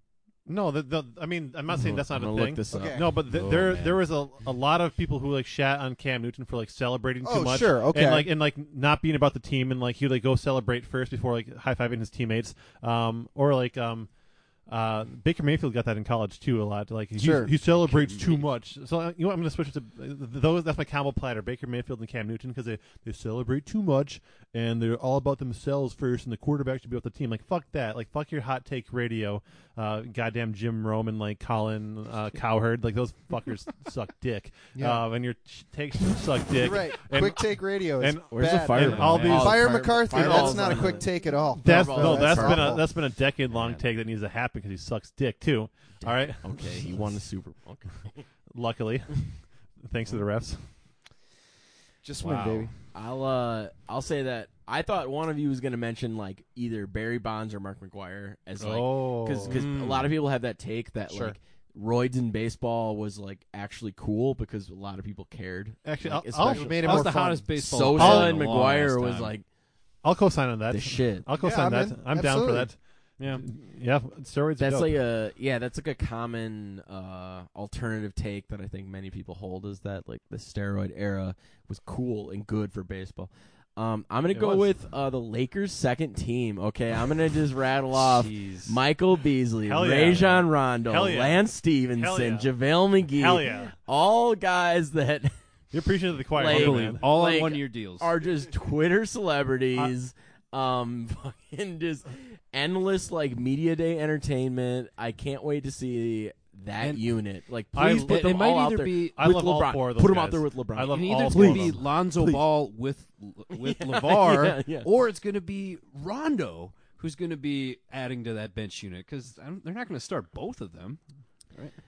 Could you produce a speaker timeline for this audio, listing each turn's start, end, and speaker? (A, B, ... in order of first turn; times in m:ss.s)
0:00.4-0:41.0 A
0:01.9-0:03.0 B
0:02.7-0:03.1 C
0:03.3-0:04.0 D
0:07.2-0:08.3 C
0:17.2-0:17.5 C
0:17.8-0:18.4 D
0:34.7-0:35.0 C
0:36.6-0:42.8 C
0:38.3-0:42.8 B
0:38.8-0:39.5 D
0:41.6-0:47.0 A
0:43.5-0:43.8 D
0:46.0-0:48.2 B
0:48.5-0:50.7 A
0:52.0-0:52.7 C
0:52.2-0:52.7 D
0:52.9-1:09.5 B
0:58.6-0:59.6 A
0:59.5-1:00.1 D
1:01.1-1:01.4 C
1:05.8-1:07.1 A
1:06.5-1:07.5 C
1:06.8-1:09.3 D
1:08.0-1:08.4 A
1:10.0-1:15.0 A
1:10.7-1:11.2 B
1:11.4-1:12.7 C
1:13.2-1:13.4 D
1:14.6-1:35.4 B
1:24.3-1:24.8 A
1:27.9-1:28.8 D
1:29.6-1:32.5 A
1:33.0-1:33.7 A
1:35.7-1:37.0 A
1:36.3-1:51.7 B
1:36.4-1:38.1 D
1:46.8-1:47.2 D
1:47.7-1:48.4 A
1:48.0-1:49.2 D
1:49.1-1:52.4 A
1:50.9-2:01.7 D
1:53.5-1:54.9 B